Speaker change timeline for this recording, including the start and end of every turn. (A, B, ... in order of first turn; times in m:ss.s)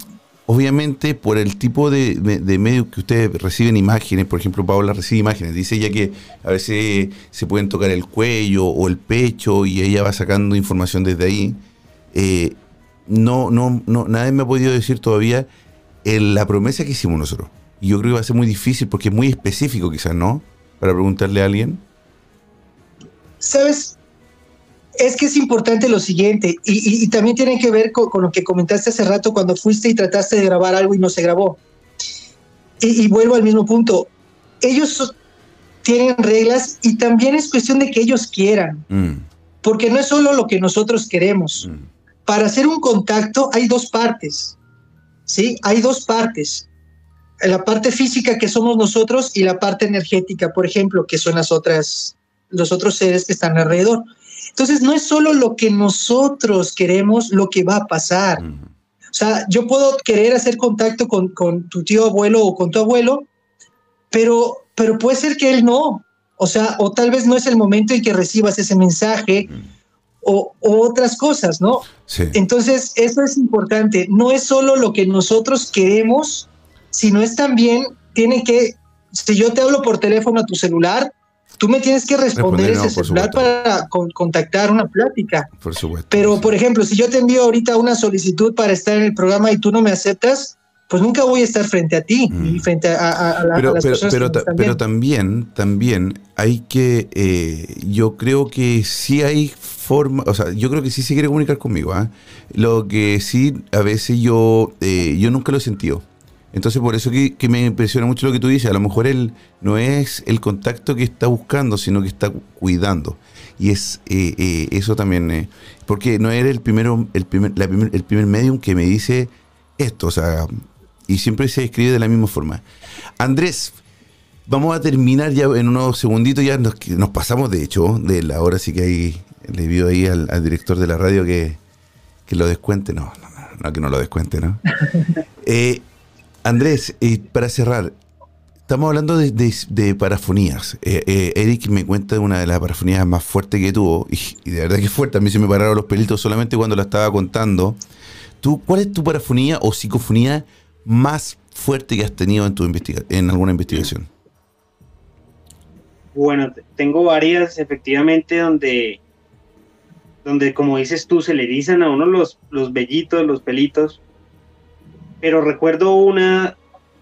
0:00.5-0:15.5 A
0:16.0-0:21.8 A
0:23.4-0:24.0 B
0:25.0-0:31.6 B
0:32.8-0:35.1 B
0:35.8-0:38.8 B
0:38.9-0:39.2 A
0:39.6-0:41.7 B
0:42.2-0:44.6 B
0:45.3-0:46.6 B
0:47.4-0:58.4 B
0:58.4-0:58.7 A
0:59.1-1:03.3 B
1:04.1-1:09.5 B
1:10.2-1:25.5 B
1:12.0-1:12.4 A
1:22.3-1:23.5 A
1:25.6-1:26.6 A
1:26.1-1:34.8 B
1:32.3-1:32.7 A
1:33.5-2:02.6 A
2:03.2-2:03.8 A
2:04.5-2:11.6 A
2:12.3-2:14.6 A
2:15.4-2:15.8 A
2:16.4-2:18.0 A
2:18.7-2:27.8 A
2:28.4-2:34.1 A
2:36.1-2:39.0 C
2:40.2-2:44.0 C
2:45.2-2:46.6 C